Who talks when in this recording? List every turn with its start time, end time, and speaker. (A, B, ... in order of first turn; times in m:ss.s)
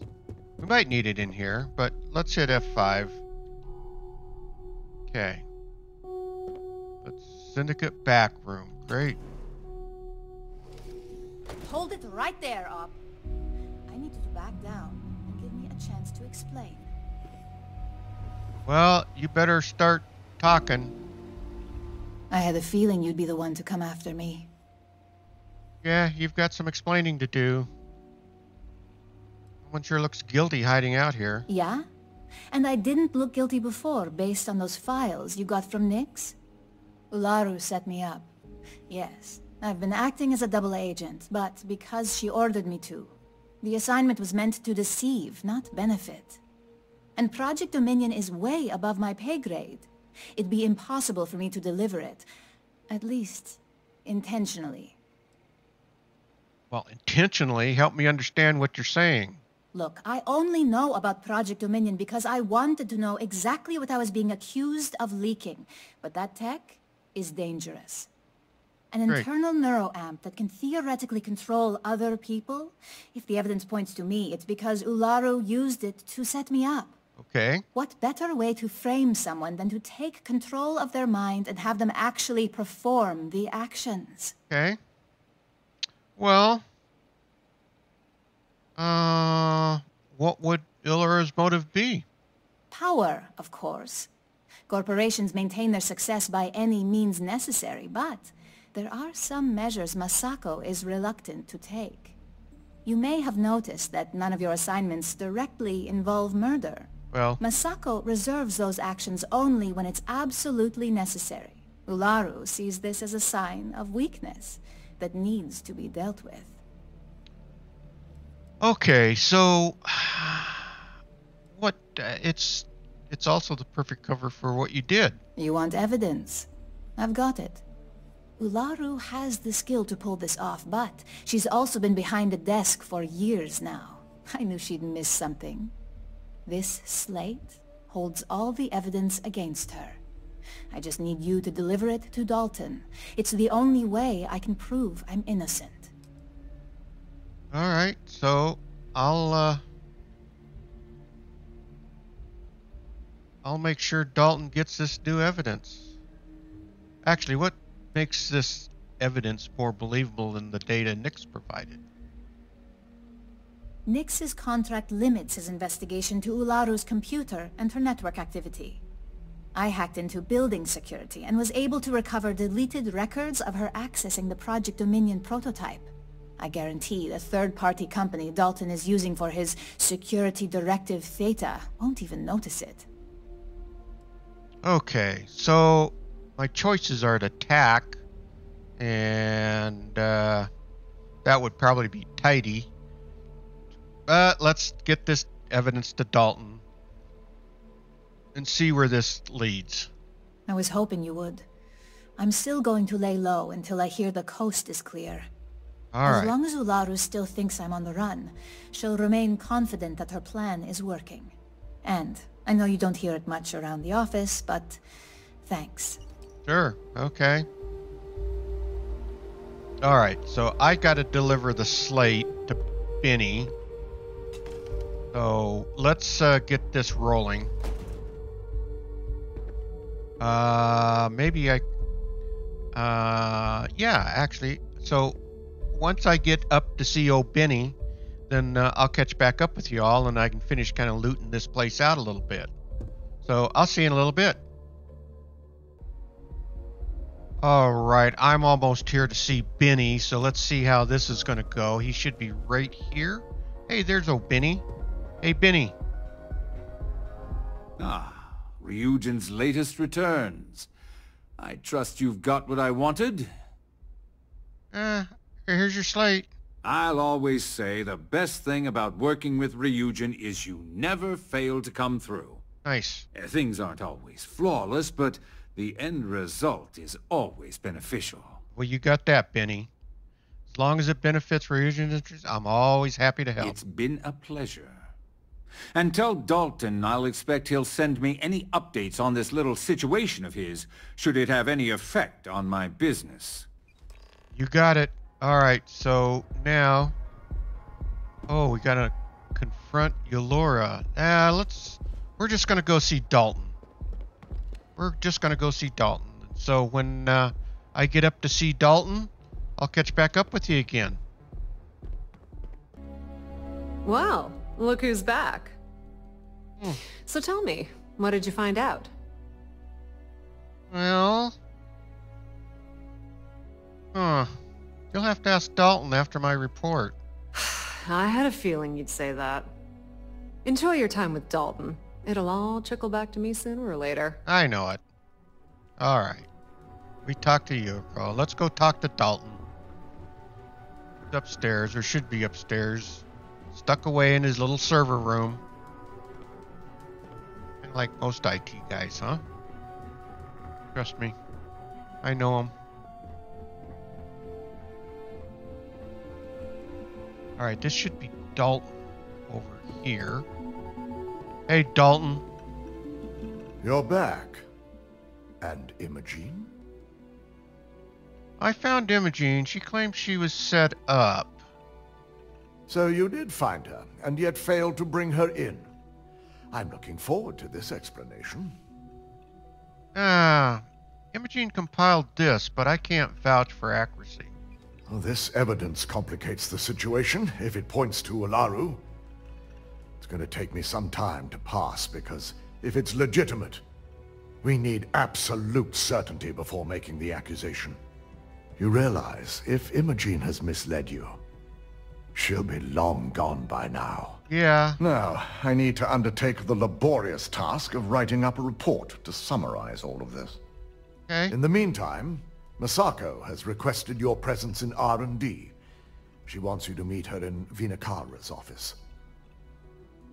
0:00.6-0:03.2 A
0:05.1-0:05.4 A
0:07.0-0:09.2 A
0:11.6-0:13.0 B
0:13.9-0:16.9 B
0:18.7-0:21.0 A
0:22.3-0:24.5 B
0:25.8-0:27.7 A
0:29.6-0:31.5 A
0:31.5-0:31.9 B
0:32.5-0:36.4 B
0:37.1-0:38.3 B
0:38.9-0:46.4 B
0:47.2-0:52.3 B
0:52.9-0:55.0 B
0:56.7-0:59.4 A
0:59.7-1:08.1 B
1:08.9-1:17.0 B
1:17.2-1:17.6 A
1:17.7-1:24.4 B
1:24.5-1:24.8 A
1:26.2-1:26.6 A
1:28.8-1:32.1 A
1:32.7-1:34.1 B
1:34.7-1:42.2 B
1:42.8-1:56.6 B
1:47.1-1:47.4 A
1:58.6-2:00.8 A
2:01.5-2:05.2 A
2:05.4-2:07.6 B
2:08.4-2:15.7 B
2:16.5-2:20.0 B
2:20.7-2:25.9 B
2:27.5-2:29.6 A
2:33.4-2:35.9 A
2:37.1-2:41.8 A
2:43.9-2:48.8 B
2:49.6-3:02.9 B
3:04.6-3:08.0 A
3:08.8-3:10.5 A
3:11.2-3:12.7 A
3:14.1-3:16.6 A
3:18.4-3:19.9 A
3:20.5-3:21.5 B
3:22.2-3:25.3 B
3:25.9-3:26.3 A
3:26.0-3:34.8 B
3:35.4-3:36.0 B
3:36.5-3:37.5 A
3:39.8-3:43.5 A
3:45.1-3:47.5 A
3:50.2-3:51.6 A
3:52.7-3:55.2 A
3:55.7-3:57.8 A
3:58.3-4:02.5 A
4:03.2-4:04.4 A
4:07.4-4:14.6 A
4:15.2-4:15.8 A
4:17.8-4:20.7 C
4:21.4-4:23.3 C
4:24.7-4:26.3 A
4:26.6-4:32.4 C
4:32.6-4:33.1 A
4:33.1-4:38.4 C
4:38.6-4:39.7 A
4:40.5-4:43.6 A
4:43.4-4:44.9 C
4:45.7-4:53.5 C
4:54.3-4:57.0 A
4:58.3-5:03.6 A
5:04.8-5:11.0 A
5:13.8-5:15.6 D
5:17.0-5:18.9 D
5:20.7-5:21.4 A
5:23.9-5:24.4 A
5:24.9-5:27.0 A
5:27.4-5:29.5 D
5:30.4-5:34.2 D
5:34.3-5:34.8 A
5:35.8-5:36.3 A
5:37.0-5:39.4 A
5:41.1-5:45.4 A
5:47.6-5:49.2 A
5:50.7-5:51.2 A
5:52.0-5:52.5 A
5:57.4-6:00.2 A
6:01.5-6:02.2 A
6:03.6-6:04.4 E
6:05.4-6:06.5 E
6:08.4-6:11.4 A
6:12.7-6:15.7 E
6:16.5-6:18.6 E
6:20.0-6:24.3 A
6:24.9-6:28.8 E
6:30.0-6:33.6 E
6:34.4-6:37.8 E
6:38.6-6:41.2 E
6:42.1-6:44.2 E
6:44.3-6:44.8 A
6:44.8-6:50.4 E
6:51.1-6:51.3 A
6:51.3-6:55.6 E
6:56.3-6:58.8 E